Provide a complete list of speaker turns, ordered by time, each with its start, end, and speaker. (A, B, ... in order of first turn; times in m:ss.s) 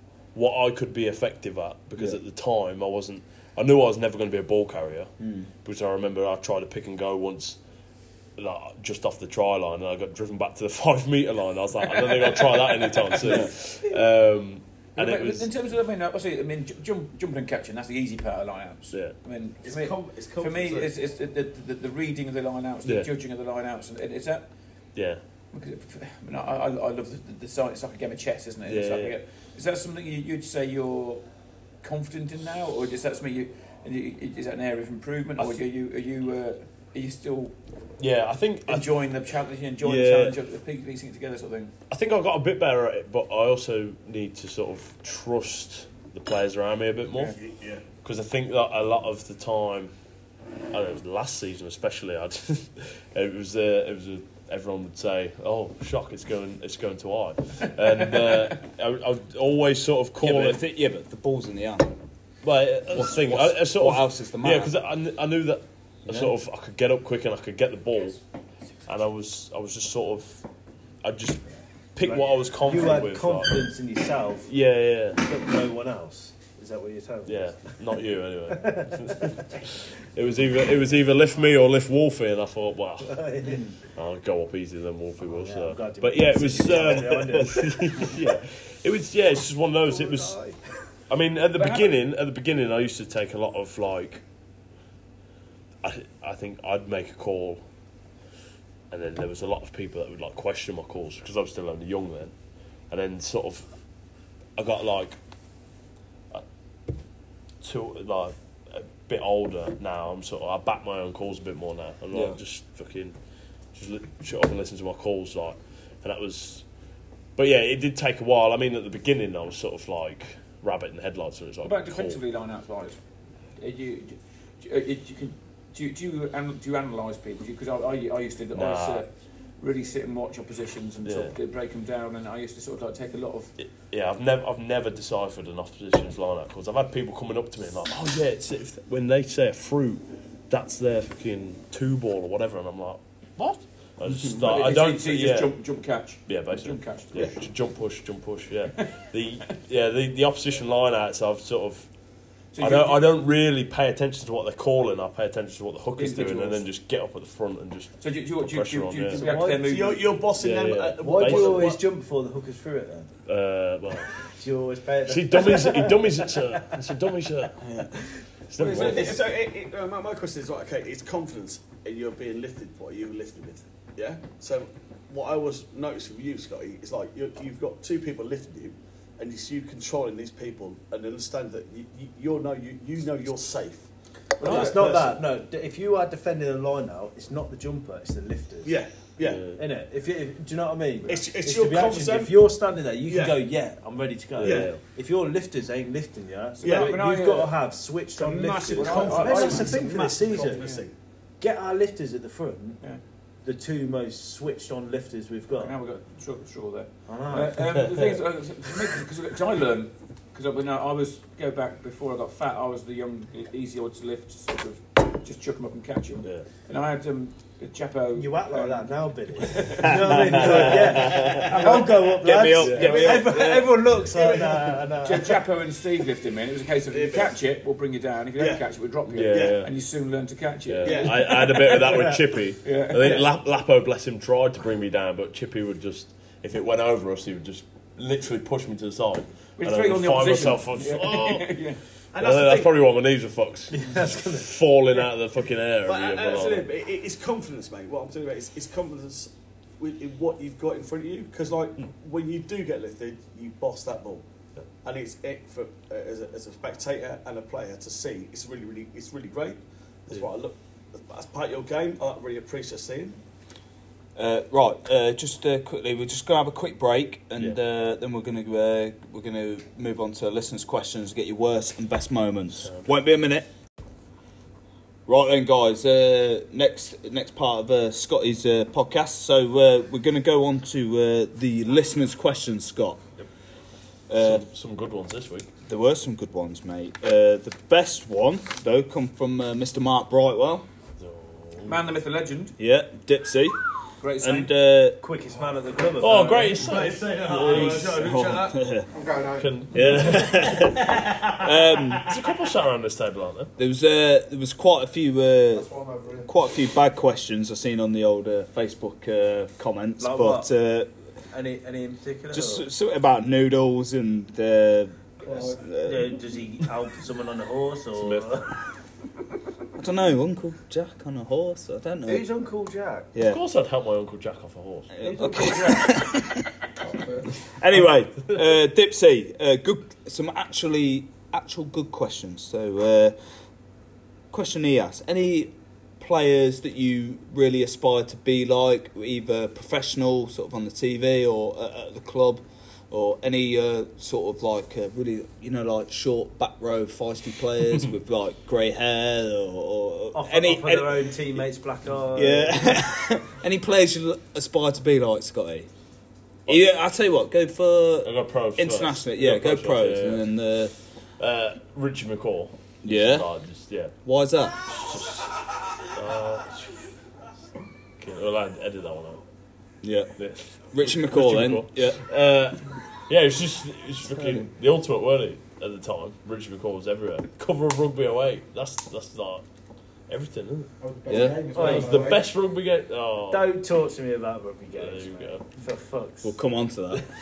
0:00.3-0:07.6 A
0:05.2-0:05.5 B
0:08.4-0:15.5 A
0:11.9-0:13.9 C
0:13.2-0:13.5 B
0:15.0-0:24.5 C
0:19.6-0:20.9 D
0:24.9-0:25.2 A
0:25.5-0:31.2 C
0:28.6-0:29.1 A
0:31.8-0:37.5 C
0:38.0-0:38.9 A
0:38.7-0:41.7 C
0:39.8-0:40.4 A
0:41.9-0:47.4 A
0:47.3-0:47.8 D
0:48.0-0:49.9 A
0:50.7-1:00.6 A
1:00.2-1:02.0 B
1:02.4-1:08.2 A
1:02.9-1:04.7 B
1:06.1-1:06.3 B
1:08.9-1:10.4 A
1:11.0-1:11.4 A
1:11.9-1:13.7 A
1:12.0-1:14.5 E
1:14.5-1:15.2 A
1:15.2-1:17.5 E
1:17.2-1:23.2 A
1:18.5-1:19.6 E
1:23.1-1:23.8 E
1:23.9-1:30.4 A
1:25.2-1:28.3 E
1:29.9-1:30.6 E
1:31.1-1:34.2 A
1:31.6-1:31.9 C
1:35.8-1:37.6 A
1:38.9-1:42.3 A
1:42.9-1:43.6 A
1:44.6-1:45.2 A
1:47.6-1:53.1 A
1:52.1-1:52.4 B
1:53.7-1:56.6 A
1:57.4-2:02.2 A
2:01.6-2:03.0 C
2:03.6-2:13.5 C
2:08.5-2:09.0 A
2:11.0-2:11.3 A
2:13.6-2:25.6 A
2:24.1-2:27.4 C
2:26.2-2:31.9 A
2:32.5-2:33.1 C
2:32.6-2:39.2 A
2:36.0-2:36.6 C
2:38.0-2:40.1 C
2:39.1-2:39.7 E
2:39.6-2:41.8 D
2:40.4-2:41.8 A
2:41.0-2:43.1 E
2:43.2-2:44.1 A
2:44.2-2:46.7 E
2:45.0-2:47.6 A
2:48.5-2:49.2 A
2:48.6-3:05.2 D
3:04.4-3:04.8 C
3:04.4-3:08.8 E
3:08.6-3:09.6 D
3:09.2-3:09.6 A
3:09.6-3:20.6 E
3:11.0-3:12.5 D
3:13.0-3:13.4 D
3:14.4-3:14.8 A
3:14.4-3:14.8 D
3:16.6-3:17.6 C
3:16.6-3:17.0 D
3:18.2-3:20.9 D
3:18.7-3:20.8 C
3:21.4-3:22.8 E
3:23.4-3:25.7 E
3:25.5-3:38.9 C
3:27.1-3:27.6 E
3:38.1-3:45.4 E
3:39.4-3:41.9 C
3:39.7-3:43.7 B
3:42.6-3:42.9 A
3:42.7-3:43.2 C
3:44.1-3:44.7 D
3:45.0-3:53.2 C
3:46.9-3:47.3 D
3:49.1-3:49.7 A
3:49.2-3:49.6 D
3:50.7-4:06.7 A
3:50.8-3:52.2 D
3:52.9-3:53.3 D
3:59.6-4:01.8 C
4:02.1-4:02.7 D
4:03.7-4:04.5 E
4:05.8-4:14.2 D
4:14.8-4:23.2 D
4:24.2-4:33.5 B
4:35.1-4:43.0 B
4:44.1-4:44.4 B
4:44.1-4:45.5 A
4:45.6-4:50.6 B
4:51.0-4:51.8 A
4:51.6-4:52.5 C
4:52.6-4:53.6 B
4:54.0-4:54.5 C
4:54.2-4:55.0 B
4:55.0-4:56.7 E
4:56.0-4:58.1 A
4:56.0-4:58.6 D
4:57.4-4:58.1 E
4:57.8-4:58.9 B
4:58.9-4:59.7 F
4:59.4-5:00.8 A
4:59.7-5:02.1 B
5:02.0-5:03.5 A
5:03.6-5:05.7 B
5:05.5-5:06.3 F
5:06.2-5:10.9 B
5:10.0-5:10.5 E
5:11.3-5:12.7 E
5:12.3-5:16.2 B
5:15.2-5:15.7 F
5:15.7-5:18.5 E
5:17.9-5:18.4 A
5:19.8-5:22.3 B
5:22.0-5:23.1 E
5:23.1-5:23.4 B
5:23.2-5:24.9 A
5:24.9-5:26.5 B
5:25.0-5:25.9 C
5:26.8-5:27.3 F
5:27.5-5:33.2 B
5:34.3-5:51.4 B
5:50.1-5:52.8 E
5:52.1-5:55.7 B
5:56.4-6:00.7 B
5:58.0-6:00.3 A
6:01.2-6:03.9 A
6:02.8-6:03.3 B
6:04.0-6:04.6 B
6:04.7-6:06.9 A
6:08.0-6:09.2 A
6:09.8-6:10.1 B
6:10.2-6:19.4 A
6:10.7-6:12.0 B
6:14.1-6:14.5 B
6:20.1-6:20.7 A
6:20.8-6:22.3 F
6:21.1-6:21.6 B
6:21.5-6:22.2 E
6:21.6-6:23.5 A
6:23.3-6:26.4 E
6:24.7-6:25.4 A
6:26.2-6:27.1 B